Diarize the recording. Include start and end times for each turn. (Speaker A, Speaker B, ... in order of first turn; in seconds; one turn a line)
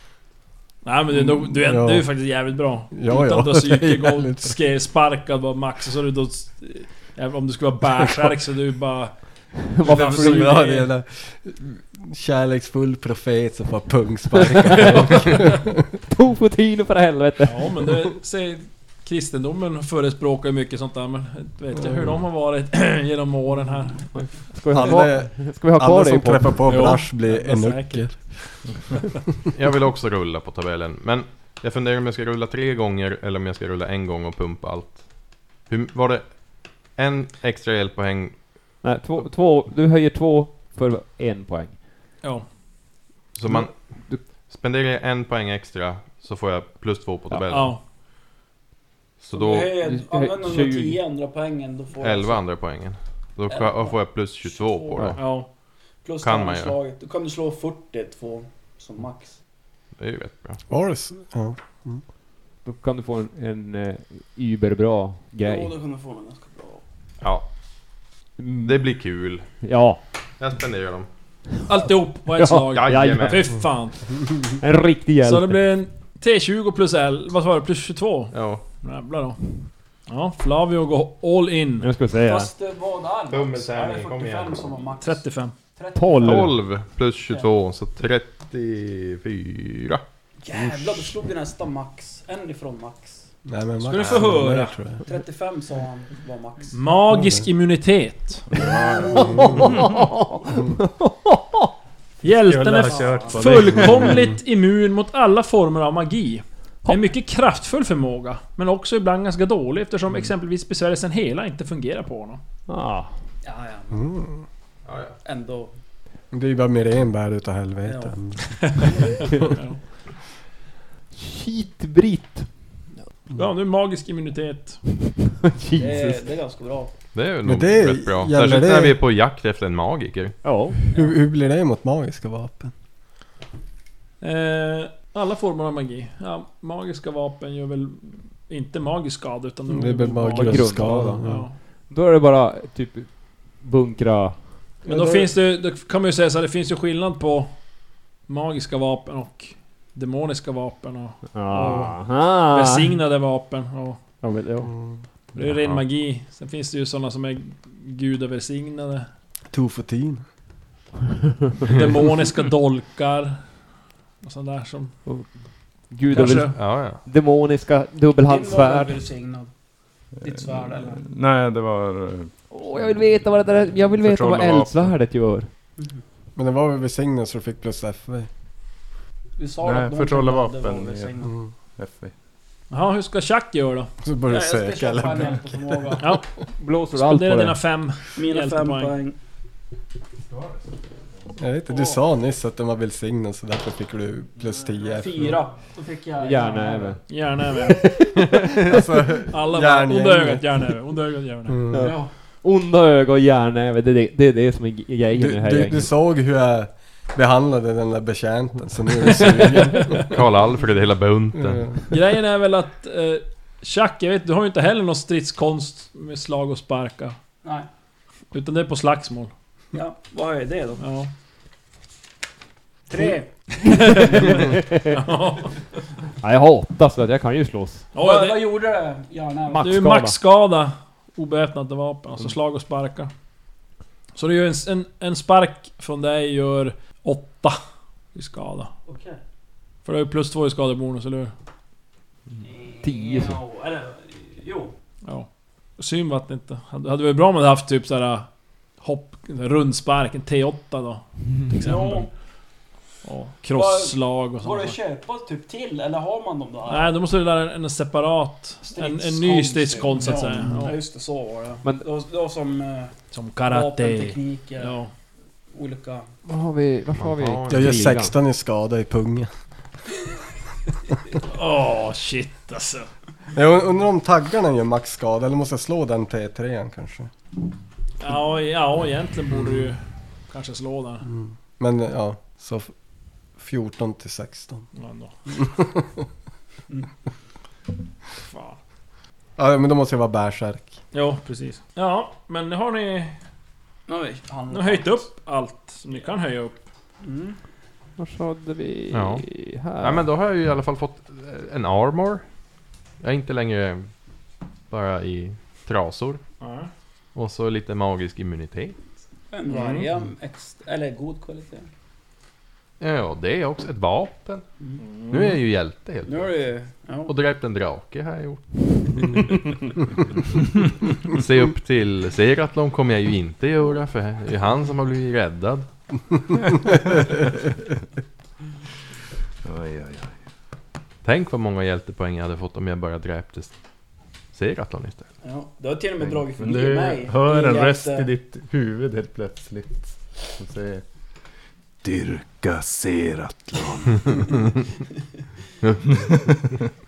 Speaker A: 0.8-10.6
Speaker B: 1.1-2.2
Speaker B: 2.9-4.6
Speaker C: 9.7-10.9
Speaker B: 9.8-15.8
Speaker C: 14.7-15.6
Speaker C: 16.1-17.9
Speaker A: 17.4-24.2
Speaker C: 24.5-26.9
Speaker B: 24.7-29.0
Speaker A: 26.7-28.4
Speaker D: 29.5-38.8
Speaker C: 38.8-41.8
Speaker A: 42.2-42.5
Speaker D: 43.3-47.8
Speaker C: 43.5-44.3
Speaker A: 47.5-47.8
Speaker D: 49.2-49.7
Speaker E: 49.3-52.4
Speaker C: 49.8-51.0
Speaker D: 52.0-55.4
Speaker E: 53.5-55.2
Speaker A: 55.2-55.5
Speaker E: 56.0-59.4
Speaker D: 56.2-56.8
Speaker D: 60.0-60.6
Speaker B: 60.7-62.0
Speaker C: 62.6-65.7
Speaker E: 65.4-66.8
Speaker D: 67.2-67.5
Speaker C: 68.4-68.9
Speaker D: 68.6-69.5
Speaker C: 69.6-70.0
Speaker D: 70.4-71.1
Speaker A: 71.7-74.0
Speaker C: 72.3-73.5
Speaker D: 72.7-73.5
Speaker C: 74.6-75.7
Speaker A: 75.2-79.5
Speaker D: 78.3-78.6
Speaker A: 80.1-81.9
Speaker C: 81.8-82.5
Speaker E: 82.2-85.2
Speaker D: 83.3-84.7
Speaker A: 85.0-85.5
Speaker E: 85.8-86.5
Speaker C: 86.0-86.6
Speaker D: 86.2-90.0
Speaker E: 90.4-93.2
Speaker B: 90.5-91.2
Speaker B: 93.5-95.0
Speaker A: 93.8-94.8
Speaker E: 95.0-96.8
Speaker A: 96.7-98.5
Speaker B: 97.1-97.5
Speaker F: 98.6-99.8
Speaker B: 99.1-99.7
Speaker C: 99.4-101.7
Speaker A: 102.2-112.4
Speaker F: 102.2-104.3
Speaker E: 102.8-103.7
Speaker C: 112.7-113.1
Speaker E: 113.4-114.1
Speaker B: 113.9-114.4
Speaker D: 114.9-115.2
Speaker E: 115.2-115.7
Speaker B: 116.3-118.9
Speaker E: 117.8-119.2
Speaker A: 118.8-119.8
Speaker C: 121.1-123.0
Speaker A: 123.3-124.8
Speaker C: 125.4-126.2
Speaker E: 125.8-126.9
Speaker D: 127.1-130.4
Speaker B: 127.5-129.0
Speaker C: 130.4-130.8
Speaker B: 130.9-132.7
Speaker A: 134.2-141.6
Speaker B: 139.7-141.5
Speaker C: 140.3-144.6
Speaker B: 144.8-145.3
Speaker A: 144.9-147.5
Speaker A: 148.3-152.0
Speaker C: 151.3-152.9
Speaker A: 152.5-154.0
Speaker C: 154.2-154.7
Speaker B: 154.7-155.0
Speaker A: 155.3-159.1
Speaker D: 155.4-155.8
Speaker B: 159.5-160.2
Speaker A: 161.7-163.5
Speaker A: 164.2-164.9
Speaker C: 165.1-169.0
Speaker A: 166.1-166.6
Speaker D: 166.1-167.1
Speaker E: 168.2-169.5
Speaker F: 170.2-175.0
Speaker E: 170.2-171.0
Speaker C: 172.5-175.5
Speaker E: 175.8-176.0
Speaker B: 176.4-178.3
Speaker E: 179.4-181.3
Speaker F: 179.6-181.2
Speaker B: 181.2-181.5
Speaker F: 181.8-182.1
Speaker A: 182.7-183.9
Speaker B: 184.0-186.0
Speaker E: 184.3-186.1
Speaker A: 186.0-186.2
Speaker C: 186.6-187.6
Speaker A: 186.9-188.9
Speaker E: 188.2-189.2
Speaker F: 190.3-190.6
Speaker B: 191.4-195.4
Speaker E: 194.8-197.0
Speaker C: 196.2-197.0
Speaker A: 197.1-198.0
Speaker C: 197.7-198.9
Speaker B: 198.7-200.7
Speaker A: 199.3-201.7
Speaker B: 201.5-201.9
Speaker C: 201.7-205.9
Speaker E: 201.8-202.1
Speaker B: 205.2-210.1
Speaker A: 209.2-210.0
Speaker D: 210.0-211.8
Speaker B: 211.4-211.8
Speaker A: 211.9-217.2
Speaker A: 218.3-219.3
Speaker E: 219.7-220.8
Speaker A: 220.8-221.1
Speaker E: 222.9-224.5
Speaker A: 223.6-225.6
Speaker C: 224.4-224.9
Speaker C: 226.2-227.9
Speaker A: 227.9-228.4
Speaker E: 228.0-229.8
Speaker C: 229.5-230.2
Speaker A: 229.6-233.1
Speaker A: 234.2-237.6
Speaker A: 238.1-238.7
Speaker E: 238.9-239.2
Speaker A: 239.8-241.3
Speaker E: 242.4-244.7
Speaker C: 242.8-243.4
Speaker A: 245.0-252.1
Speaker E: 251.6-252.1
Speaker A: 253.0-254.8
Speaker E: 253.5-257.0
Speaker A: 256.7-260.8
Speaker E: 258.6-264.8
Speaker A: 263.1-264.9
Speaker E: 265.5-266.1
Speaker C: 266.3-268.1
Speaker D: 267.0-267.7
Speaker B: 267.5-269.3
Speaker A: 271.2-272.9
Speaker B: 273.3-277.1
Speaker A: 278.0-281.1
Speaker B: 281.1-282.7
Speaker B: 283.4-284.7
Speaker A: 284.8-285.1
Speaker B: 285.3-286.0
Speaker A: 288.2-288.6
Speaker B: 289.4-290.8
Speaker A: 290.9-293.2
Speaker E: 293.9-295.1
Speaker A: 294.5-296.6
Speaker E: 297.0-297.4
Speaker C: 298.0-300.1
Speaker D: 298.9-299.2
Speaker D: 299.8-302.3
Speaker D: 303.0-303.9
Speaker D: 304.7-306.2
Speaker A: 306.4-306.7
Speaker D: 307.1-308.8
Speaker E: 309.3-311.7
Speaker A: 309.5-309.9
Speaker D: 312.8-314.4
Speaker A: 314.8-315.4
Speaker D: 315.1-316.3
Speaker E: 316.1-317.1
Speaker D: 317.1-319.4
Speaker D: 320.9-325.7
Speaker F: 329.4-330.2
Speaker D: 331.0-333.5
Speaker D: 334.3-335.1
Speaker E: 335.2-338.1
Speaker F: 336.4-340.8
Speaker F: 341.8-344.3
Speaker D: 344.1-344.4
Speaker D: 345.6-346.1
Speaker F: 345.9-346.5